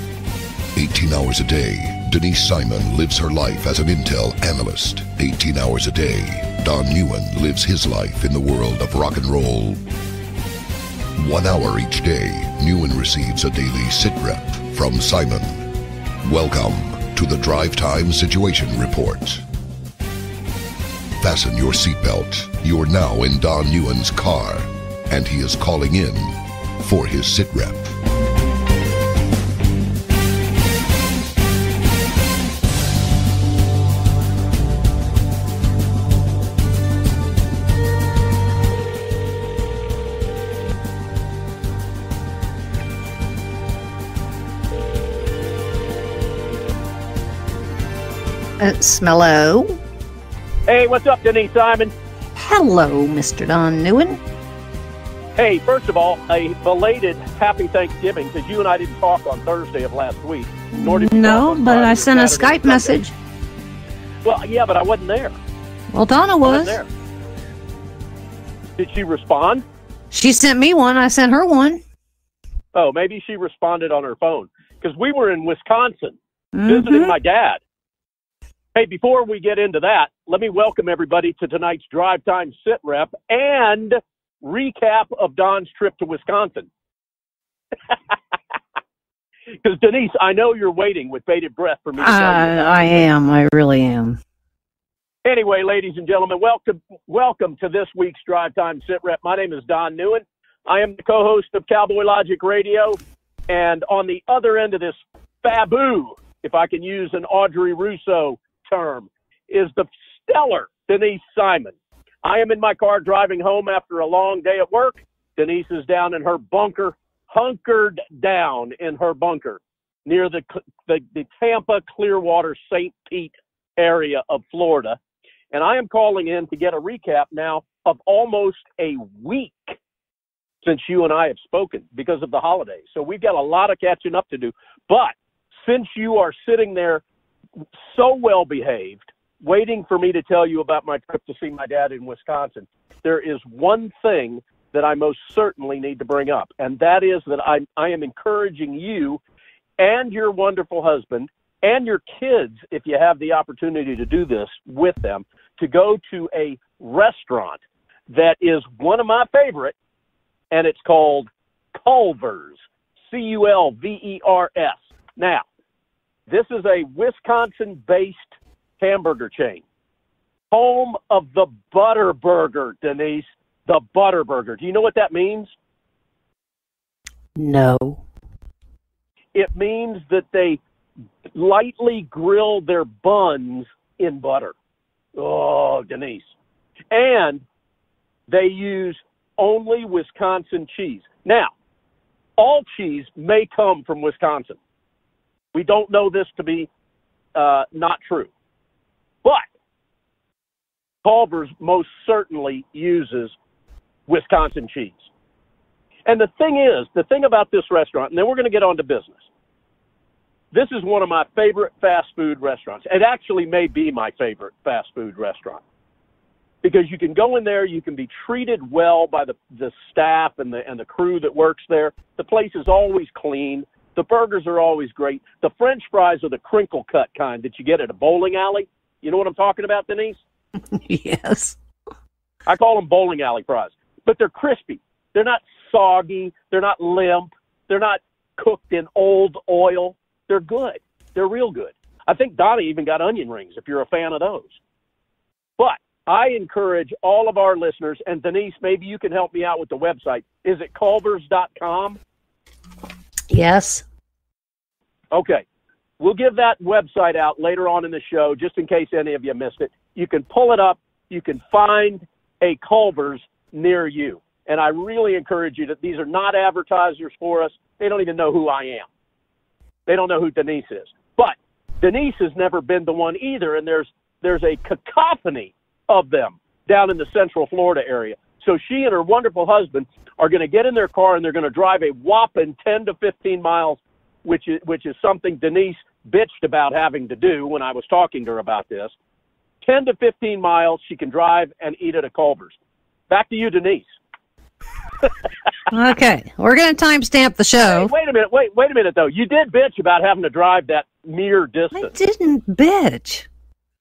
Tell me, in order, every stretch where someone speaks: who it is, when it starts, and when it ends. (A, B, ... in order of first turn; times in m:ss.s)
0:00.8-0:09.8 A
0:11.2-0:15.7 A
0:16.2-0:19.4 A
0:21.2-0:28.0 A
0:48.6-0:49.8 B
0:50.7-0:51.9 C
0:52.4-0:54.2 B
0:55.4-1:03.0 C
1:00.7-1:03.1 B
1:04.2-1:05.4 C
1:05.9-1:06.8 B
1:06.4-1:06.9 C
1:08.8-1:09.6 C
1:10.1-1:11.8 B
1:12.7-1:17.6 C
1:16.5-1:17.2 B
1:18.8-1:26.7 C
1:29.6-1:33.0 C
1:32.0-1:34.2 B
1:35.2-2:05.0 C
2:05.5-2:09.8 C
2:10.6-2:15.1 C
2:15.6-2:17.0 C
2:17.8-2:29.2 C
2:29.8-2:37.6 C
2:38.1-2:39.7 C
2:40.5-2:42.6 C
2:43.1-2:45.4 C
2:46.3-2:49.6 C
2:50.5-2:55.5 C
2:57.4-2:58.0 B
2:59.3-3:00.6 C
3:01.3-3:04.5 C
3:05.2-3:06.3 C
3:06.9-3:07.4 C
3:08.3-3:11.5 C
3:12.4-3:14.6 C
3:15.5-3:16.7 C
3:17.4-3:18.3 C
3:21.0-3:23.3 C
3:24.1-3:25.1 C
3:26.1-3:29.3 C
3:30.5-3:35.6 C
3:36.6-3:50.2 C
3:50.7-3:51.6 B
3:52.5-4:04.6 C
4:05.6-4:12.0 C
4:13.3-4:13.8 B
4:15.1-4:15.4 C
4:16.0-4:28.9 C
4:29.9-4:48.9 C
4:49.6-4:52.6 C
4:53.1-4:53.9 C
4:55.7-4:57.9 B
4:57.6-5:01.9 C
5:01.8-5:03.3 B